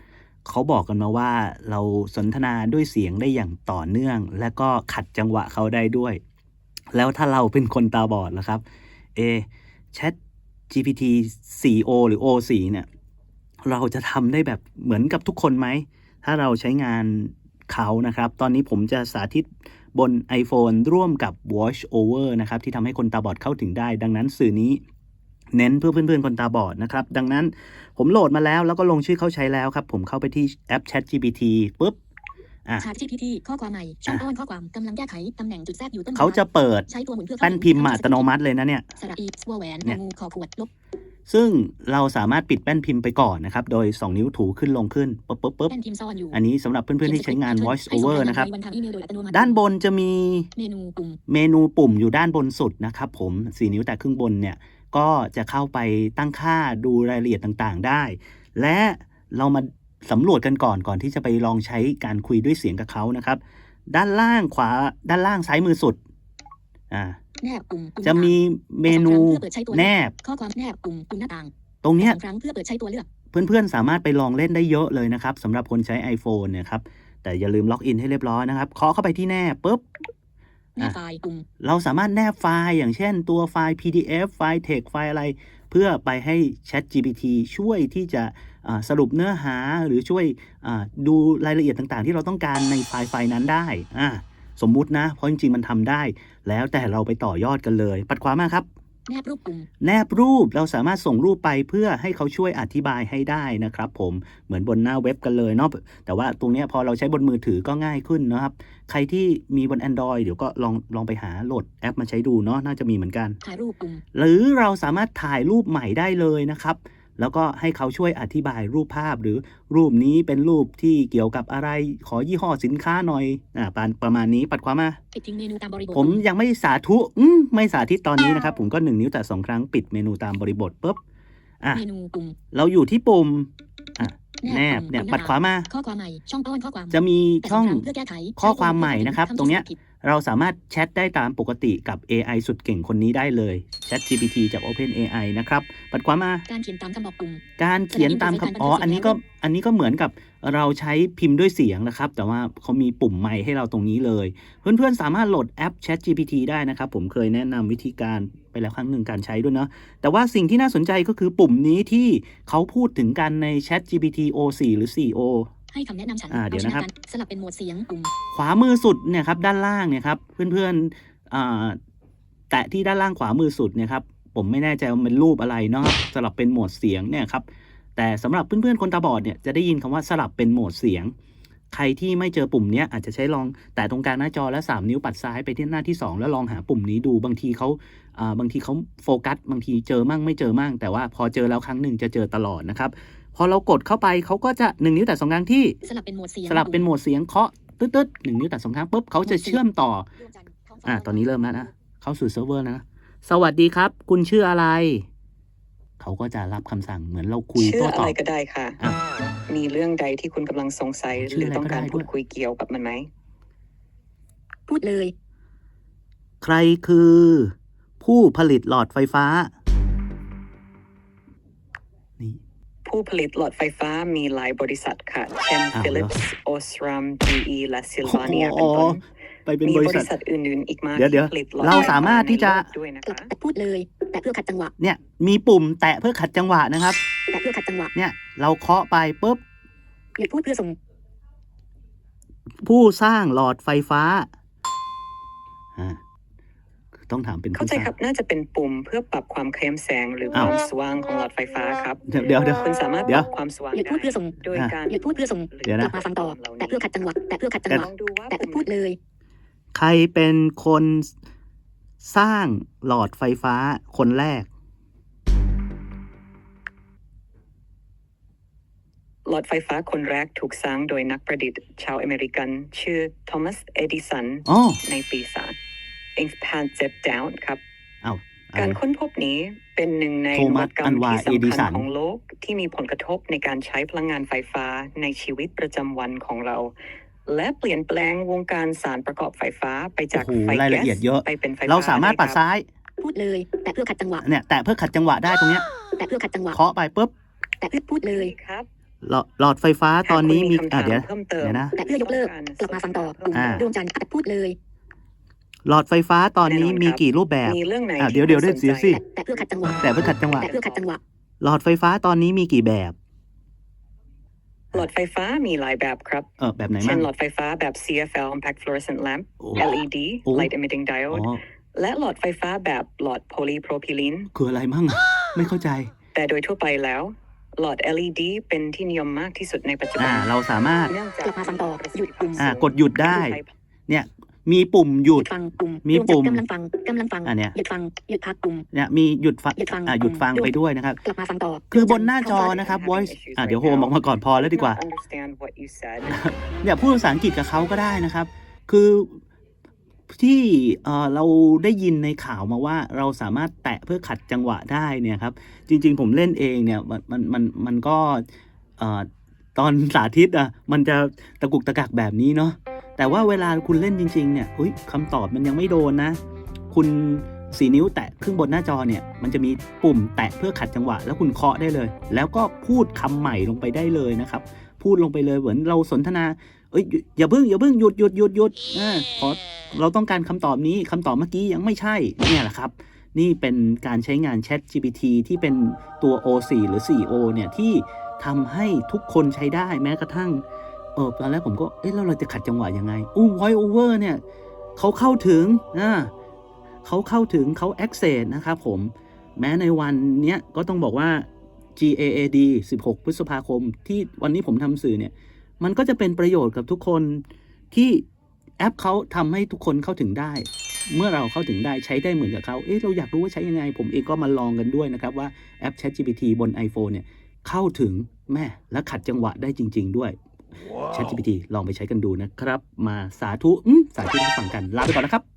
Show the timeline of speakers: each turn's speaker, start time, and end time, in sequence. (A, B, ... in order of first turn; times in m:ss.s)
0:00.4-0:06.2 A
0:06.9-0:08.6 A
0:09.2-0:10.2 A
0:10.7-0:12.9 A
0:13.6-0:24.8 A
0:25.5-0:32.0 A
0:32.8-0:38.3 B
0:36.2-0:36.9 A
0:37.4-0:38.9 A
0:39.0-0:40.7 B
0:41.3-0:45.7 A
0:45.7-0:46.4 B
0:46.3-0:48.5 A
0:47.0-0:49.6 B
0:49.3-0:50.5 A
0:50.6-0:51.2 B
0:51.3-1:06.0 A
1:06.9-1:07.2 A
1:07.4-1:13.1 B
1:08.0-1:10.2 A
1:11.8-1:12.2 A
1:13.3-1:19.8 A
1:20.8-1:21.5 B
1:21.6-1:38.7 A
1:39.1-1:39.7 B
1:39.8-1:53.4 A
1:53.4-1:54.0 B
1:54.1-2:05.0 A
2:05.1-2:06.2 B
2:05.9-2:11.0 A
2:11.7-2:12.4 B
2:12.5-2:15.7 A
2:14.2-2:19.8 B
2:16.9-2:26.5 A
2:26.5-2:29.2 B
2:27.6-2:45.5 A
2:45.7-2:48.1 B
2:46.3-2:46.9 A
2:48.3-2:51.8 A
2:52.5-3:01.1 A
3:01.7-3:15.8 A
3:15.8-3:16.9 B
3:16.5-3:20.1 A
3:19.2-3:19.6 B
3:20.2-3:21.7 B
3:20.8-3:25.1 A
3:26.0-3:28.2 A
3:27.6-3:28.8 C
3:29.5-3:33.1 C
3:31.1-3:32.1 A
3:34.7-3:35.1 B
3:36.4-3:39.5 A
3:42.8-3:49.0 C
3:45.7-3:46.1 A
3:48.0-3:50.1 A
3:49.6-3:53.3 C
3:51.0-3:52.7 A
3:51.7-3:52.0 B
3:53.0-3:54.7 B
3:54.8-3:57.0 A
3:57.3-3:57.9 B
3:58.0-3:59.4 A
4:00.2-4:00.8 B
4:02.6-4:04.3 A
4:07.0-4:07.9 A
4:07.5-4:12.0 C
4:12.1-4:13.3 A
4:12.6-4:16.8 C
4:13.7-4:19.0 B
4:15.6-4:16.0 A
4:17.7-4:18.7 C
4:19.7-4:21.1 A
4:22.0-4:24.5 A
4:29.3-4:35.6 C
4:34.5-4:34.8 A
4:36.2-4:37.6 C
4:38.0-4:38.8 A
4:38.6-4:46.7 C
4:40.3-4:41.9 A
4:47.3-4:52.4 C
4:50.1-4:52.7 A
4:53.0-4:54.2 B
4:54.2-4:55.7 A
4:56.0-4:56.6 B
4:56.5-4:57.1 A
4:57.6-4:58.3 B
4:58.0-4:58.7 C
4:59.0-5:01.8 A
5:00.0-5:03.7 C
5:01.8-5:04.6 B
5:03.3-5:03.7 A
5:05.7-5:09.0 A
5:06.4-5:10.9 C
5:08.9-5:09.9 B
5:09.8-5:10.5 A
5:10.4-5:11.0 B
5:11.4-5:13.0 A
5:14.7-5:16.3 C
5:16.4-5:17.1 A
5:16.8-5:24.3 C
5:19.4-5:19.7 A
5:20.3-5:20.5 A
5:21.1-5:21.4 A
5:24.3-5:25.9 A
5:26.2-5:33.5 C
5:30.0-5:30.9 A
5:31.2-5:32.4 B
5:32.4-5:35.3 A
5:35.1-5:38.7 B
5:35.8-5:36.4 A
5:37.2-5:37.6 A
5:38.7-5:41.0 A
5:39.6-5:40.5 B
5:41.0-5:42.6 B
5:41.7-5:44.8 A
5:42.2-5:46.2 C
5:46.1-5:49.2 A
5:50.1-5:58.3 A
5:58.8-6:06.2 A
6:06.7-6:30.4 A
6:31.0-6:34.2 A
6:34.8-6:36.1 A
6:36.8-6:48.1 A
6:48.6-7:00.2 A
7:00.9-7:05.2 A